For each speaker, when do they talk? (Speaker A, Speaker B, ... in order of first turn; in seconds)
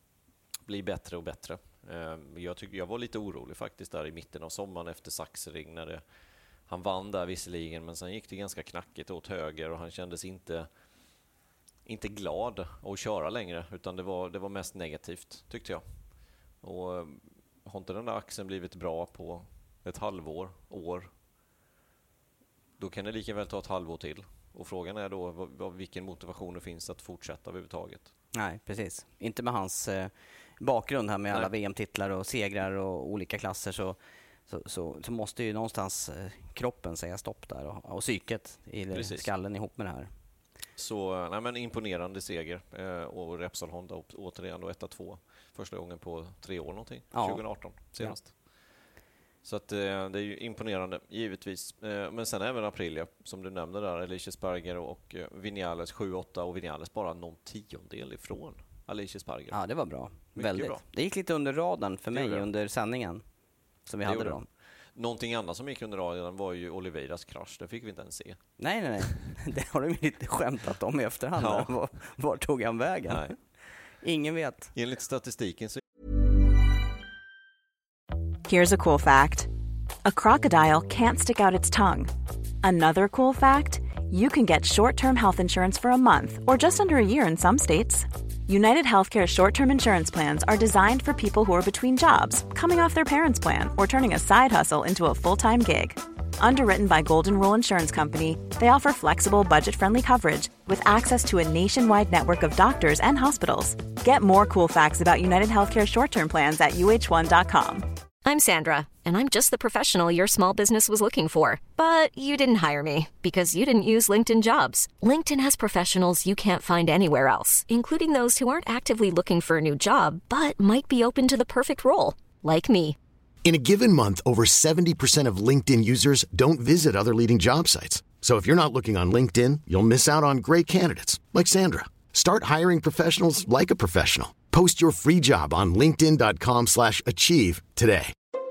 Speaker A: 0.7-6.0, 6.7-10.7, 11.8-15.8, 16.6-21.1, 22.8-28.1, 38.9-39.3, 40.8-48.4, 49.4-59.6, 60.4-60.8, 62.1-62.5, 64.0-64.4, 64.9-68.4, 71.4-71.8, 73.1-73.3, 74.7-75.8
Speaker B: 28.3-34.0, 34.5-40.1, 47.1-48.2, 59.5-63.2, 63.9-64.5, 68.6-73.4, 74.0-74.7
Speaker C: 78.5-79.5, 80.0-107.9
Speaker D: 108.2-123.0
Speaker E: 123.4-138.1